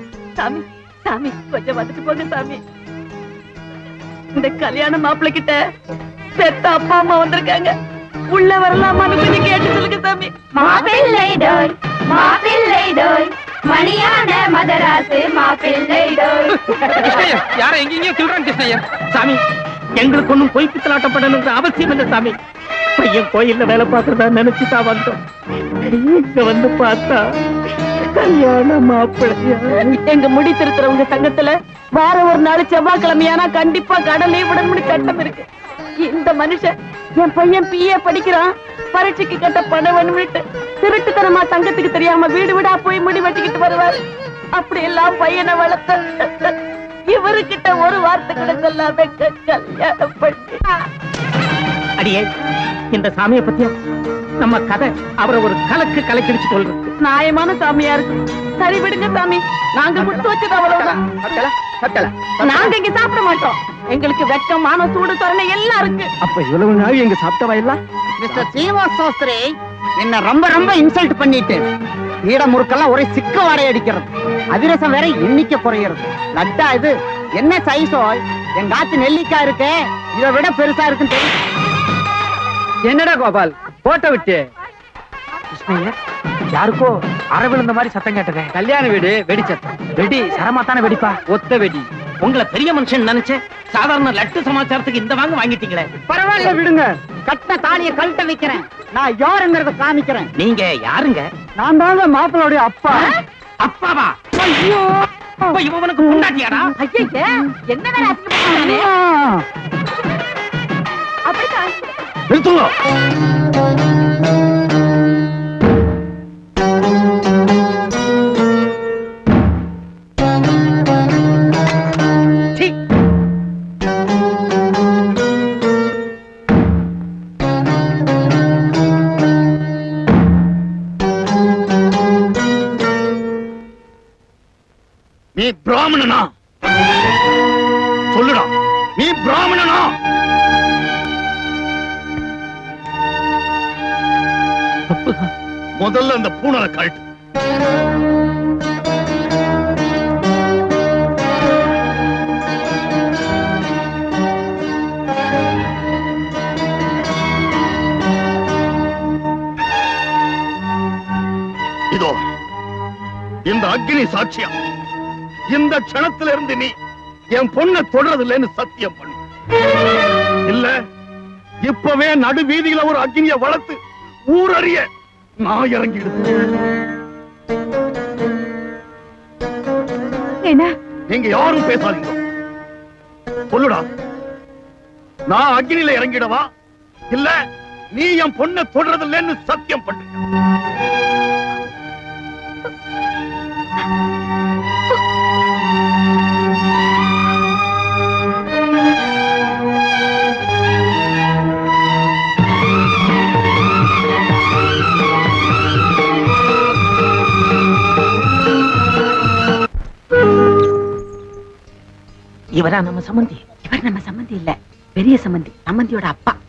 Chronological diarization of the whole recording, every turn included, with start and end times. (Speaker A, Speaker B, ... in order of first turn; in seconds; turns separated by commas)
Speaker A: 0.4-2.6, Speaker A: 4.3-5.5, Speaker A: 6.4-7.7, Speaker A: 8.3-10.3, Speaker B: 10.5-16.5, Speaker C: 16.5-18.8, Speaker D: 19.1-19.4, Speaker D: 20.0-22.4, Speaker D: 23.0-25.2, Speaker D: 25.8-27.2, Speaker D: 28.1-29.9, Speaker A: 29.9-35.4, Speaker A: 36.0-44.0, Speaker A: 44.6-46.5, Speaker A: 47.1-50.7, Speaker D: 52.0-52.3, Speaker D: 52.9-53.7, Speaker D: 54.4-56.9, Speaker A: 57.0-61.0, Speaker E: 61.1-62.1, Speaker A: 62.4-66.1, Speaker E: 66.2-67.7, Speaker F: 68.2-71.6, Speaker F: 72.2-81.3, Speaker E: 82.9-84.5, Speaker C: 85.5-86.0, Speaker C: 86.5-88.5, Speaker E: 88.5-89.6, Speaker C: 90.0-91.2, Speaker E: 91.3-91.8, Speaker D: 92.2-95.9, Speaker F: 96.1-100.3, Speaker D: 100.4-101.2, Speaker F: 101.6-103.0, Speaker D: 103.6-104.3, Speaker D: 105.4-106.7, Speaker A: 106.8-108.9, Speaker F: 108.7-109.4, Speaker A: 111.3-111.9, Speaker G: 112.3-112.7, Speaker G: 135.3-136.3, Speaker G: 138.1-139.9, Speaker G: 145.8-147.0, Speaker G: 163.5-164.5, Speaker G: 165.5-166.7, Speaker G: 167.3-169.2, Speaker G: 170.4-170.7, Speaker G: 171.6-173.8, Speaker G: 174.3-174.8, Speaker G: 175.4-176.3, Speaker A: 180.4-180.7, Speaker G: 181.1-182.2, Speaker G: 183.5-183.8, Speaker G: 185.3-186.4, Speaker G: 187.9-190.2, Speaker D: 212.6-213.4, Speaker A: 213.7-216.4